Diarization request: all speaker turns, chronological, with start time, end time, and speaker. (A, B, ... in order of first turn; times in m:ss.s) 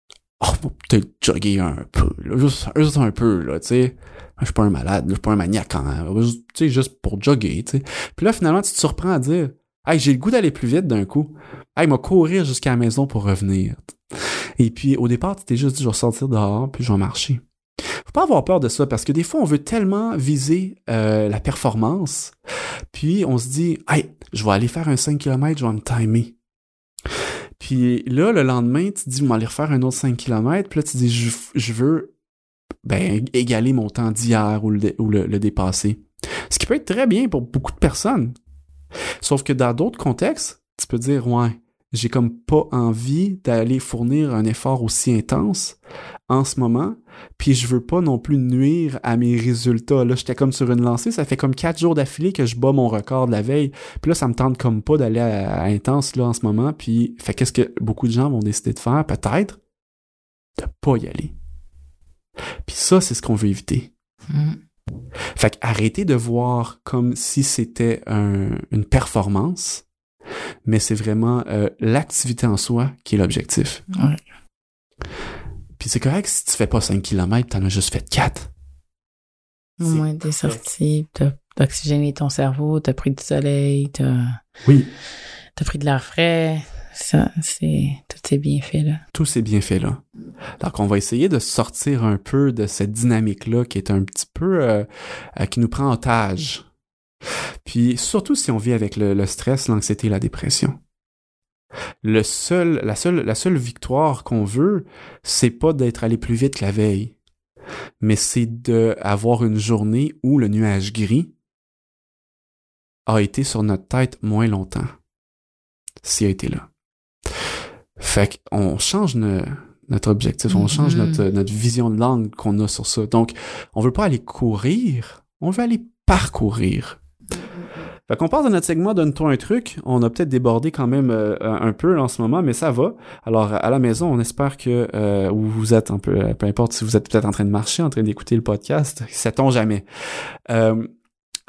0:00.4-0:13.9 A
0:14.6-0:17.4 A
0:18.0-0:22.3 A
0:22.9-0:26.4 A
0:27.6-0:32.1 A
0:32.8-0:38.3 A
0:39.2-0:45.8 A
0:46.3-0:59.6 A
1:00.6-1:01.3 A
1:02.6-1:03.9 A
1:04.3-1:04.6 B
1:05.4-1:09.8 A
1:10.6-1:13.8 A
1:13.9-1:14.2 B
1:15.8-1:18.5 A
1:19.8-1:24.4 B
1:19.8-1:20.6 A
1:25.6-1:29.0 B
1:29.1-1:30.0 A
1:30.6-1:34.8 A
1:35.4-1:36.6 A
1:37.6-1:40.8 A
1:42.0-1:47.2 A
1:48.0-1:51.3 A
1:53.1-1:55.0 A
1:56.0-1:56.7 A
1:58.0-2:07.0 A
2:00.5-2:01.2 B
2:07.4-2:07.8 B
2:08.1-2:19.8 A
2:20.5-2:20.9 A